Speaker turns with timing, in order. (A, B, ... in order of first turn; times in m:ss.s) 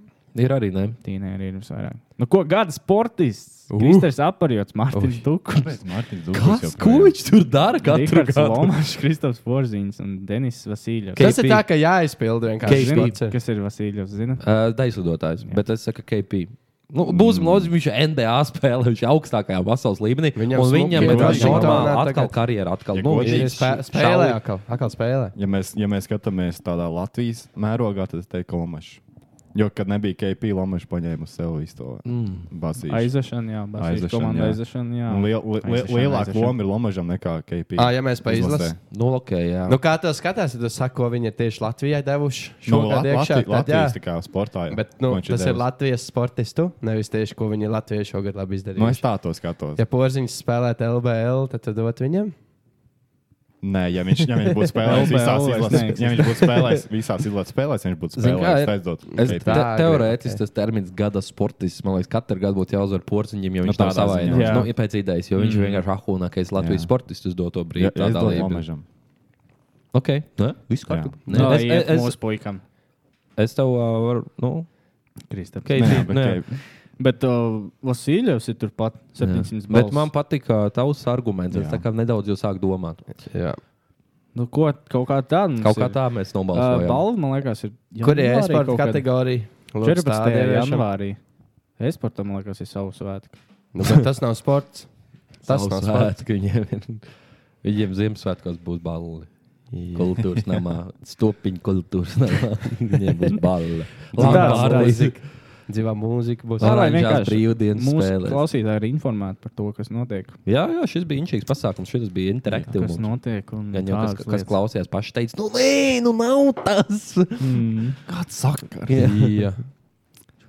0:00.3-0:01.0 A
0:01.0-0:05.8 B
0:03.7-0:04.1 C
0:05.5-0:07.2 D
0:06.3-0:08.7 A
0:07.8-0:11.3 B
0:11.2-0:11.7 A
0:11.2-0:13.4 C
0:12.6-0:14.4 B
0:12.7-0:13.2 A
0:14.4-0:24.4 A
0:17.0-0:17.8 D
0:20.4-0:22.4 C
0:20.9-0:22.0 D
0:22.9-0:23.6 D
0:23.2-0:25.3 C
0:25.4-0:29.0 D
0:29.5-0:38.8 D
0:32.1-0:32.5 A
0:32.9-0:36.6 B
0:37.8-0:38.8 C
0:38.9-0:39.8 A
0:39.7-0:44.0 C
0:42.7-0:45.7 D
0:44.7-0:49.1 C
0:48.8-0:49.8 D
0:49.8-0:52.3 C
0:53.6-0:59.7 D
0:54.8-0:56.5 B
0:58.2-1:08.6 A
0:59.1-1:00.4 C
1:03.6-1:04.7 D
1:04.3-1:04.7 B
1:05.4-1:05.8 B
1:06.6-1:06.9 D
1:07.8-1:08.8 D
1:09.9-1:12.2 A
1:10.9-1:11.2 D
1:11.3-1:11.6 C
1:11.3-1:12.6 B
1:13.4-1:14.7 A
1:15.3-1:20.1 B
1:15.6-1:16.4 A
1:15.8-1:16.6 D
1:19.2-1:23.1 A
1:21.5-1:21.8 D
1:23.3-1:23.6 C
1:24.4-1:26.0 B
1:25.6-1:27.0 A
1:26.5-1:29.1 B
1:28.0-1:30.9 C
1:29.8-1:31.2 B
1:31.8-1:33.4 B
1:33.7-1:36.2 C
1:35.5-1:37.1 A
1:37.6-1:39.3 A
1:39.7-1:40.5 C
1:39.9-1:45.3 A
1:44.1-1:44.6 D
1:44.2-1:45.1 B
1:44.2-1:46.8 C
1:46.6-1:48.4 A
1:46.6-1:50.4 B
1:50.5-1:53.1 A
1:52.8-1:54.6 B
1:53.7-1:57.6 A
1:57.4-1:58.0 B
1:58.1-1:59.2 D
1:58.9-1:59.4 A
1:58.9-1:59.6 C